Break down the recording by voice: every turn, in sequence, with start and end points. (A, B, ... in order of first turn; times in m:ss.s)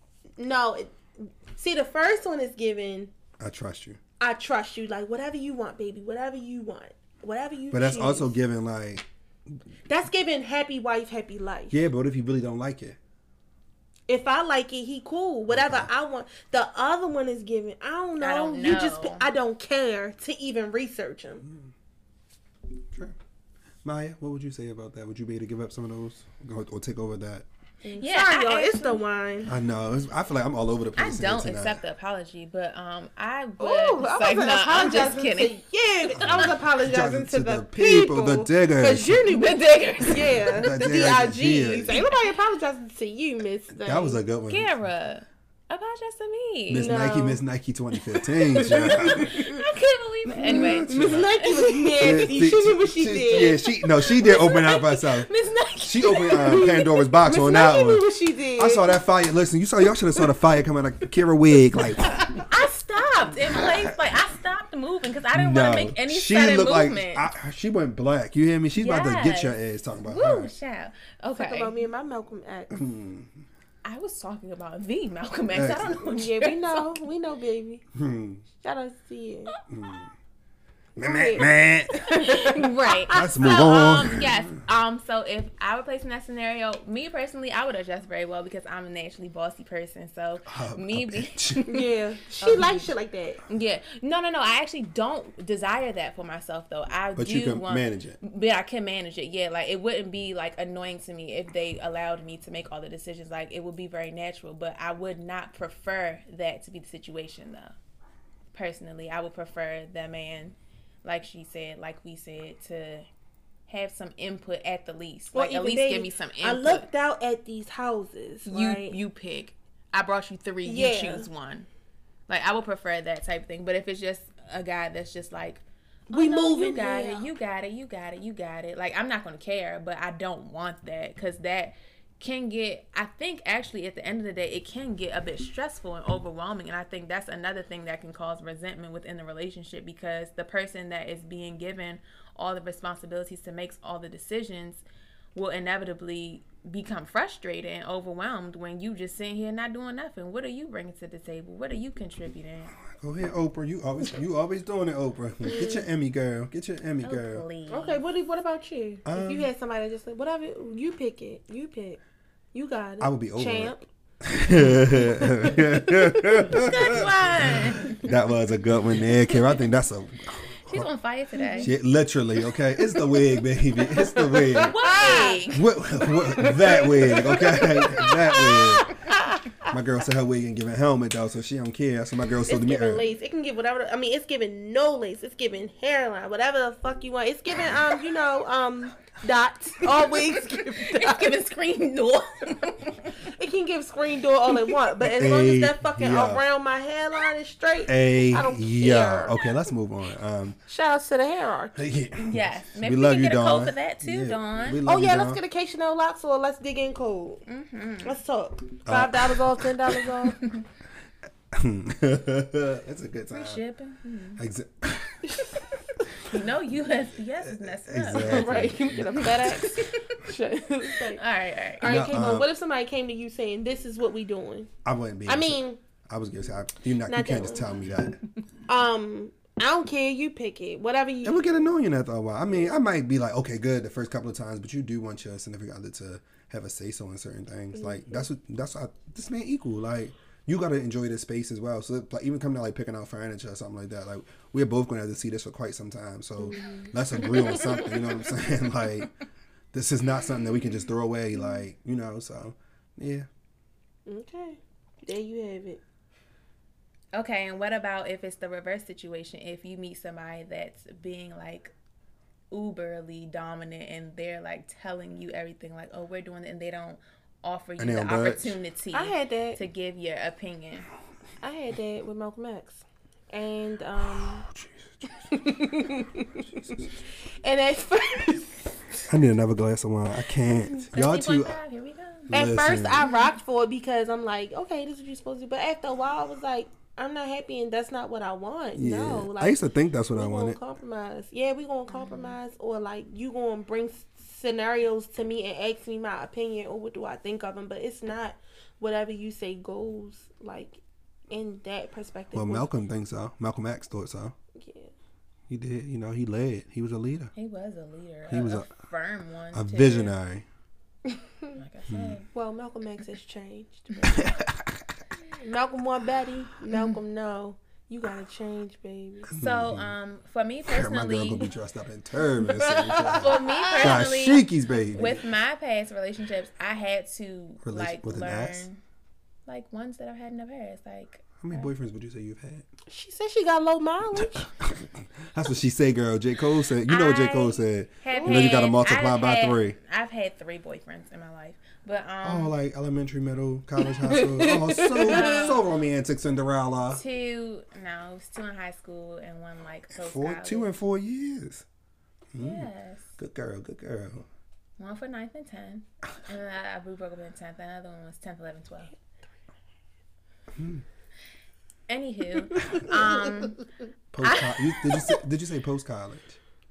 0:00.4-0:03.1 A
0:03.4-0:04.0 B
0:04.2-0:08.3 A
0:07.7-0:09.0 B
0:09.9-0:11.8 A
0:11.7-0:13.0 B
0:14.1-0:21.5 A
0:15.5-0:15.9 B
0:18.2-0:19.3 C
0:23.8-0:27.5 B
0:27.8-0:29.5 A
0:28.0-0:29.0 C
0:29.5-0:31.8 B
0:31.0-0:35.6 C
0:33.6-0:44.2 A
0:36.1-0:39.3 B
0:39.3-0:40.6 C
0:40.2-0:42.0 B
0:43.8-0:44.8 B
0:44.5-0:47.0 C
0:46.7-0:49.4 B
0:46.7-0:47.4 A
0:48.4-0:49.6 A
0:48.7-0:52.1 C
0:50.4-0:53.7 A
0:50.4-0:51.3 B
0:52.0-0:55.3 B
0:54.0-0:56.8 C
0:55.8-0:58.1 B
0:56.3-0:59.0 A
0:58.6-1:02.4 B
1:02.4-1:07.3 C
1:03.5-1:03.9 B
1:05.3-1:10.5 B
1:08.8-1:11.7 C
1:11.3-1:12.8 A
1:12.7-1:13.4 B
1:13.8-1:17.0 C
1:15.5-1:16.0 B
1:16.0-1:17.8 A
1:17.9-1:18.4 B
1:18.6-1:19.5 A
1:19.7-1:20.1 B
1:21.0-1:22.6 B
1:21.0-1:23.4 A
1:22.1-1:31.8 C
1:23.1-1:24.6 B
1:30.4-1:31.7 B
1:31.7-1:33.4 A
1:32.4-1:32.9 C
1:33.5-1:47.8 C
1:37.2-1:38.2 B
1:48.5-1:53.1 C
1:53.7-1:56.9 C
1:55.3-1:59.0 A
1:58.5-2:01.7 C
2:00.6-2:01.3 A
2:02.3-2:32.8 C
2:06.1-2:07.3 A
2:32.8-2:37.4 B
2:35.4-2:35.9 A
2:37.0-2:38.0 C
2:37.7-2:42.0 A
2:39.1-2:39.5 B
2:42.5-2:43.8 A
2:43.0-2:50.9 B
2:44.8-2:46.5 A
2:46.5-2:48.0 C
2:50.7-2:51.7 C
2:51.4-2:51.7 A
2:51.6-2:54.8 B
2:53.0-2:55.4 A
2:54.7-2:55.7 C
2:55.5-2:59.0 B
2:56.4-2:59.7 A
2:59.7-3:03.0 B
3:02.5-3:11.3 A
3:10.5-3:13.2 C
3:13.2-3:19.4 A
3:15.0-3:16.4 B
3:17.9-3:20.6 B
3:20.7-3:21.8 A
3:21.8-3:25.4 B
3:22.2-3:24.8 C
3:24.8-3:27.4 A
3:27.5-3:28.2 C
3:28.0-3:30.4 A
3:28.9-3:29.8 B
3:31.5-3:33.6 B
3:33.3-3:34.4 C
3:34.4-3:35.4 B
3:35.3-3:36.0 A
3:36.2-3:38.6 C
3:37.4-3:39.7 B
3:38.1-3:41.2 A
3:39.5-3:40.2 C
3:41.1-3:42.0 C
3:41.8-3:44.7 A
3:41.8-3:42.5 B
3:44.8-3:48.2 B
3:45.3-3:45.8 A
3:47.0-3:47.8 A
3:48.7-3:51.5 A
3:51.2-4:09.1 B
3:57.8-3:58.3 A
4:06.4-4:07.8 A
4:09.7-4:13.3 B
4:14.1-4:15.8 A
4:17.1-4:21.7 C
4:22.5-4:30.9 C
4:27.8-4:28.6 B
4:28.9-4:29.6 A
4:31.4-4:34.5 A
4:34.5-4:35.1 B
4:35.2-4:36.9 A
4:36.6-4:36.8 B
4:37.4-4:39.0 A
4:39.1-4:41.6 B
4:40.7-4:42.4 C
4:42.3-4:43.1 B
4:42.3-4:49.6 A
4:43.0-4:43.3 C
4:48.8-4:50.6 B
4:50.1-5:02.7 A
4:51.9-4:52.4 C
5:02.3-5:04.4 B
5:04.5-5:04.9 A
5:05.5-5:07.3 B
5:07.4-5:10.1 C
5:08.3-5:08.7 B
5:09.5-5:10.4 B
5:11.6-5:12.3 C
5:11.9-5:12.2 B
5:12.3-5:14.2 A
5:14.1-5:14.8 B
5:15.3-5:19.3 A
5:16.7-5:17.0 C
5:19.3-5:19.9 B
5:19.4-5:21.5 C
5:20.6-5:25.2 B
5:22.4-5:24.0 A
5:23.2-5:28.8 C
5:27.6-5:28.7 B
5:29.5-5:31.7 C
5:31.4-5:32.7 B
5:32.9-5:34.5 A
5:34.2-5:39.8 B
5:36.9-5:42.5 C
5:38.1-5:38.7 A
5:42.2-5:47.0 B
5:44.0-5:45.5 A
5:45.1-5:45.7 C
5:46.9-5:50.7 C
5:49.9-5:51.7 B
5:52.3-5:54.3 B
5:52.4-5:53.2 C
5:54.8-5:58.9 C
6:00.5-6:00.8 B
6:01.9-6:03.6 C
6:04.1-6:06.4 B
6:04.2-6:05.2 C